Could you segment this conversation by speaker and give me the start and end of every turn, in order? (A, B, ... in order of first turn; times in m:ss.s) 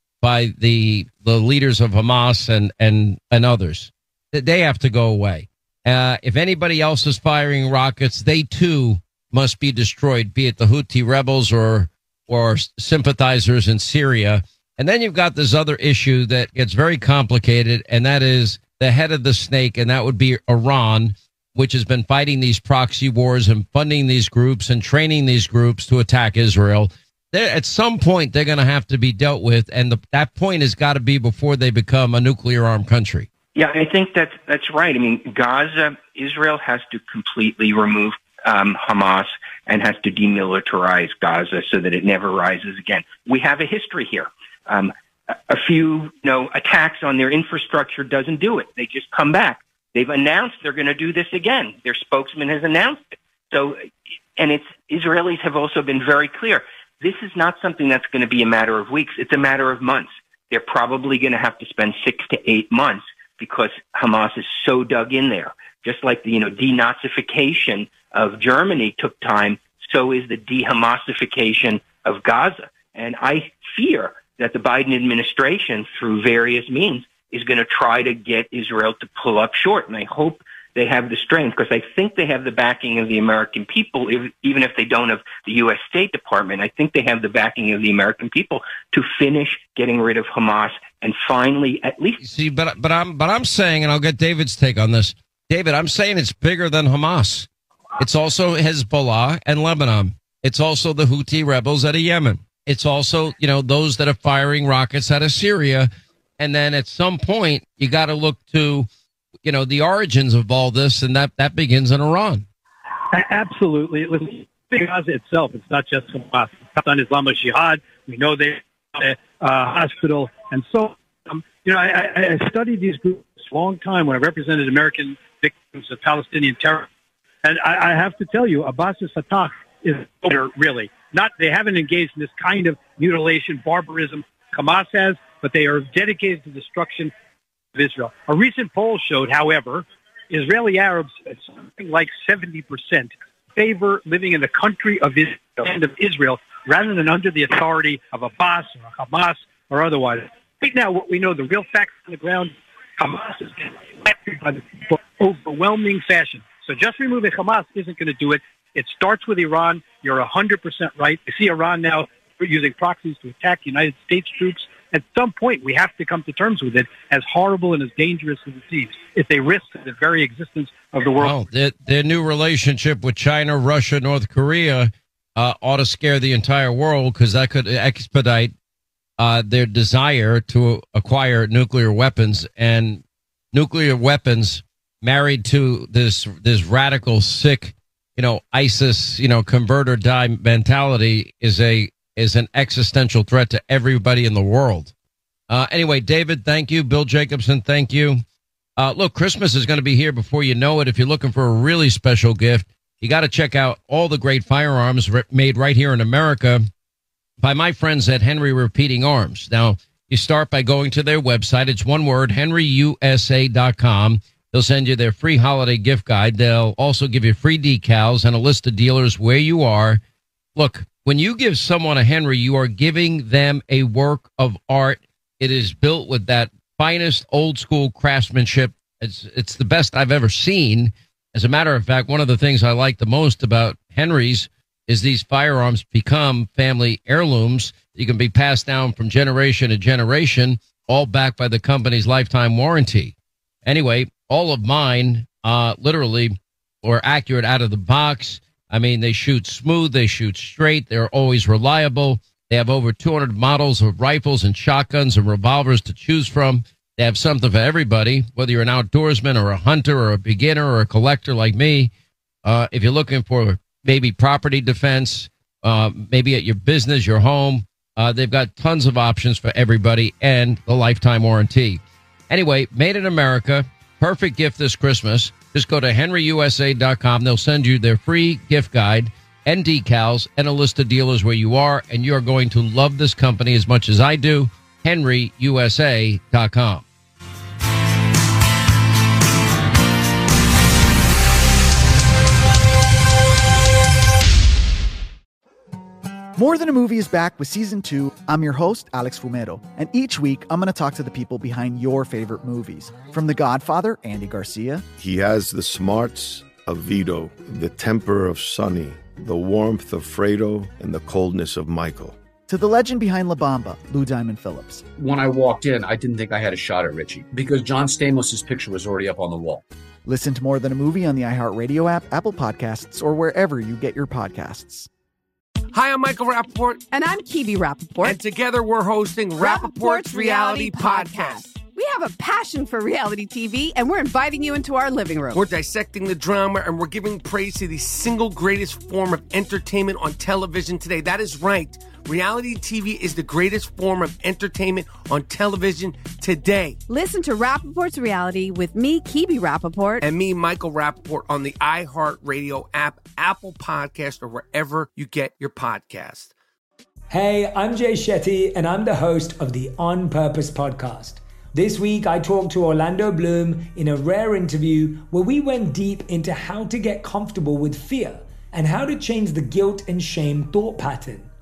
0:00.2-0:33.3 A
0:33.6-0:44.9 B
0:45.5-0:53.8 B
0:54.4-1:32.2 B
1:32.2-1:37.5 A
1:38.0-1:48.9 A
1:49.4-1:52.5 A
1:53.1-2:06.9 C
2:07.4-2:17.1 C
2:17.7-2:51.4 C
2:51.2-2:58.5 A
2:59.2-3:14.9 A
3:15.5-3:18.2 A
3:18.8-3:26.6 A
3:27.4-3:40.0 A
3:40.6-4:21.9 A
4:22.4-4:46.8 A
4:56.4-5:04.8 D
5:05.0-5:12.2 E
5:12.5-5:14.8 D
5:15.0-5:19.6 F
5:20.1-5:24.9 D
5:25.7-5:26.8 G
5:26.9-5:28.2 H
5:28.0-5:31.4 G
5:29.4-5:35.4 H
5:35.3-5:46.8 G
5:46.9-5:50.1 H
5:50.0-5:56.3 G
5:57.1-6:11.3 I